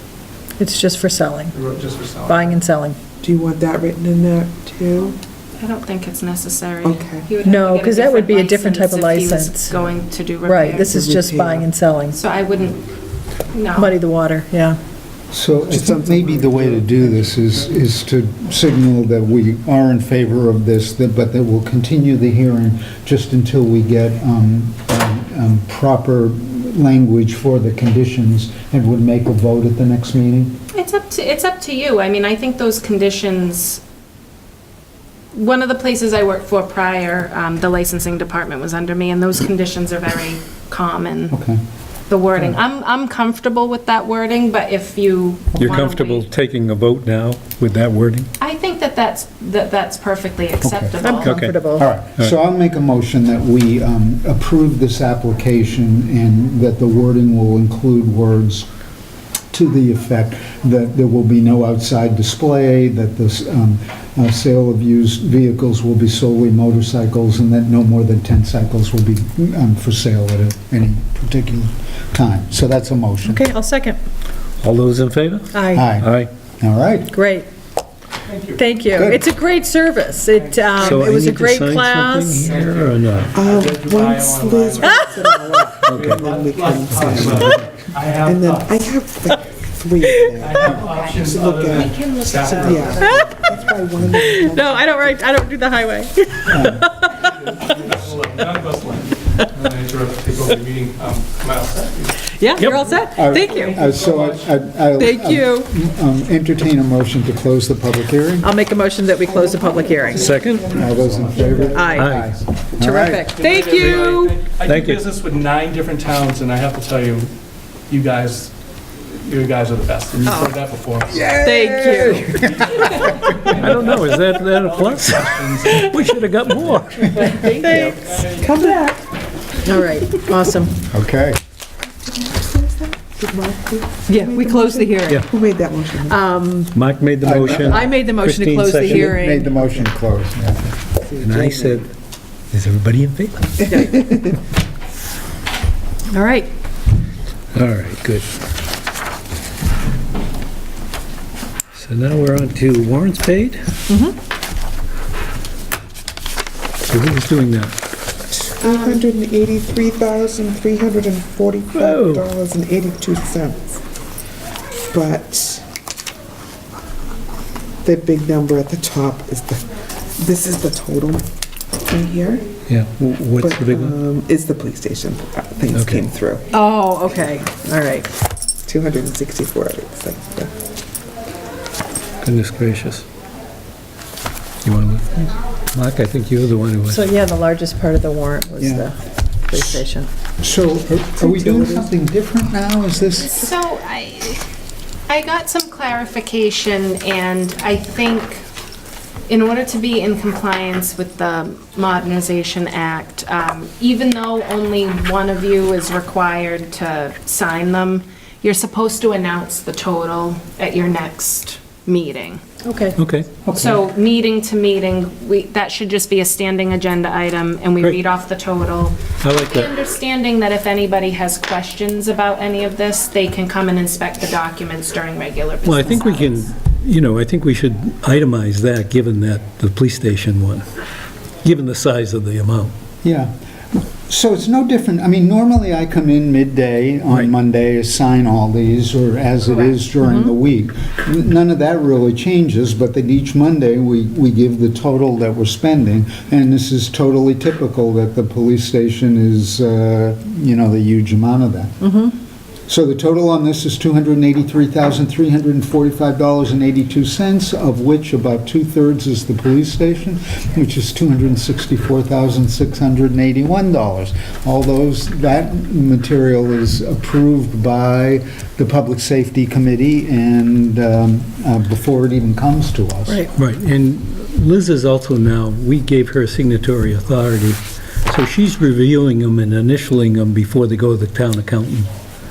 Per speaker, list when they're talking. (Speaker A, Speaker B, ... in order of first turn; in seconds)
Speaker A: 0.6-1.5, 2.2-3.0, 7.4-9.7, 10.4-12.2, 13.7-14.8, 51.0-51.9, 73.2-74.0, 75.5-75.9, 77.1-77.5, 78.5-82.5, 93.0-93.3, 94.1-97.7, 102.3-103.8, 105.0-105.7, 108.4-110.2, 111.6-112.1, 112.8-114.4, 120.2-120.5, 121.4-123.0, 127.1-128.2, 129.6-130.8, 134.1-135.2, 136.1-136.7, 137.5-139.7, 143.7-144.0, 146.1-146.5, 153.9-154.1, 176.5-178.1, 186.9-188.9, 189.5-190.1, 212.6-213.0, 240.0-240.3, 251.8-252.1
Speaker B: 1.5-2.6, 78.3-78.6, 80.3-81.0, 82.4-89.5, 90.2-93.2, 97.2-104.5, 110.0-112.0, 113.2-117.3, 117.9-126.8, 127.7-128.6
Speaker C: 3.2-5.2, 6.8-7.3, 10.8-11.7, 15.6-17.3, 83.3-87.5, 88.2-92.0, 92.6-95.2, 109.2-111.8, 121.1-122.3, 127.3-129.0, 129.6-130.0, 132.1-136.2, 141.0-141.9, 143.8-144.2, 158.3-163.8, 164.9-165.6, 167.8-171.3, 171.8-172.4, 173.4-176.4, 178.6-180.5, 191.2-191.9
Speaker D: 5.6-11.0, 12.1-12.8, 13.5-14.0, 30.7-33.8, 35.3-41.4, 42.1-46.3, 48.4-51.4, 90.7-93.3, 158.6-159.1, 193.3-194.4, 195.1-198.4, 199.3-212.6, 213.5-226.5
Speaker E: 15.3-30.6, 41.3-41.6, 51.7-58.6, 59.5-73.4, 75.7-77.1, 79.0-79.2, 96.5-96.9, 103.0-108.5, 110.7-113.2, 130.9-131.4, 137.2-138.0, 138.8-140.7, 188.6-188.9, 190.4-193.4, 213.4-213.8, 233.0-251.8, 252.7-273.2
Speaker F: 45.6-48.3, 50.7-52.3, 74.6-76.3, 80.8-83.3, 85.8-87.6, 102.6-102.9, 110.2-110.7, 111.9-112.3, 114.6-115.0, 123.5-127.5, 136.7-139.1, 141.2-141.9, 142.5-143.9, 147.5-148.3, 151.7-153.8, 156.8-157.7, 161.7-162.3, 172.7-174.0, 175.7-176.1, 182.2-183.0, 184.6-187.2, 212.9-213.4, 219.2-219.7, 225.6-230.7, 231.4-232.7, 273.3-281.9